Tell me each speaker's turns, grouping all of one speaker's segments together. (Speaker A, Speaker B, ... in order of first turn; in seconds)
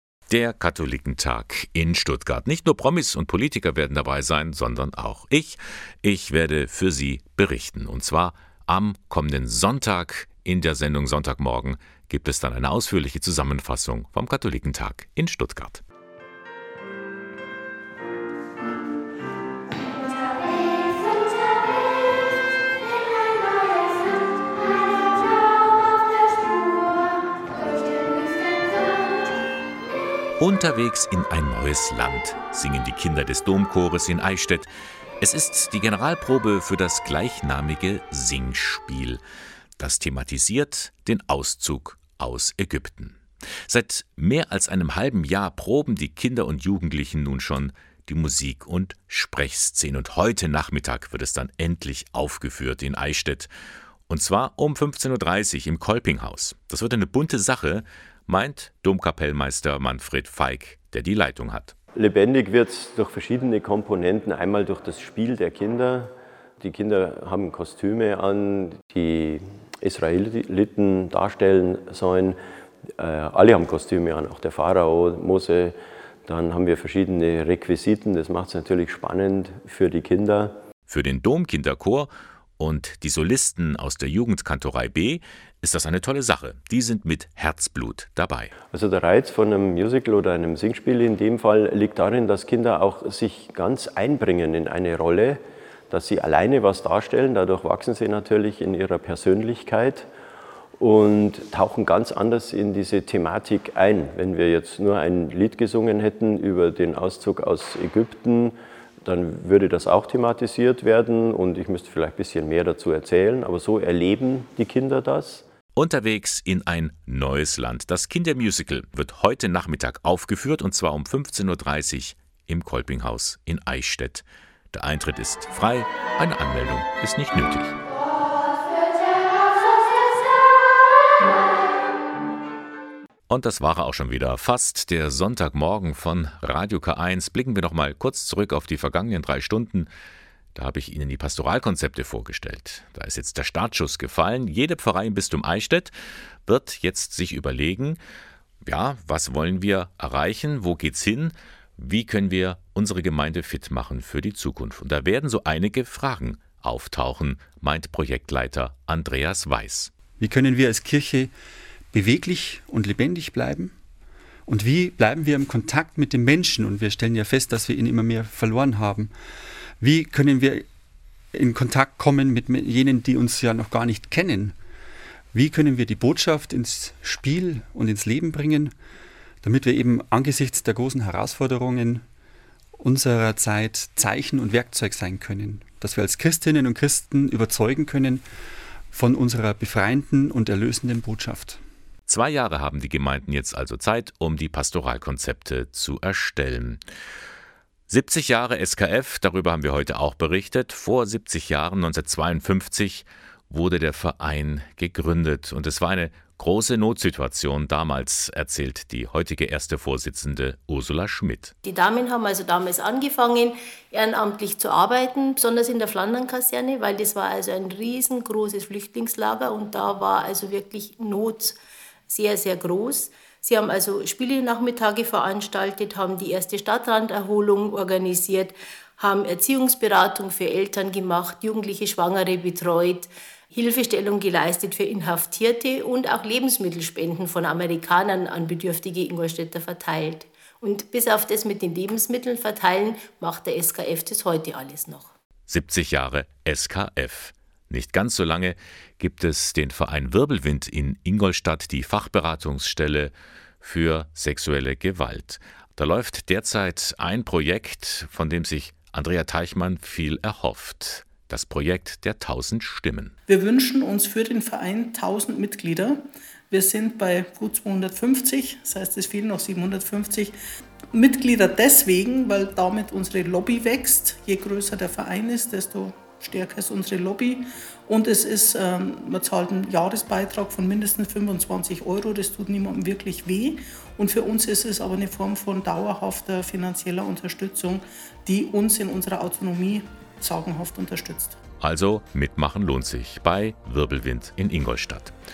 Speaker A: 0.3-15.8, 30.4-34.7, 35.2-39.2, 39.8-53.5, 54.1-61.7, 80.9-88.5, 115.7-127.8, 133.3-139.9, 140.5-145.9, 146.4-148.0, 148.6-159.9, 192.1-196.8, 197.9-211.5, 245.5-263.1, 291.6-295.1
Speaker B: 61.9-72.4, 73.0-80.6, 88.6-100.1, 100.8-115.4
Speaker C: 160.2-161.3, 161.9-163.7, 164.5-169.1, 169.8-170.7, 171.3-174.6, 175.3-178.7, 179.4-182.0, 182.8-188.2, 188.9-191.6
Speaker D: 211.6-221.6, 222.1-245.1
Speaker E: 263.3-270.3, 270.9-291.4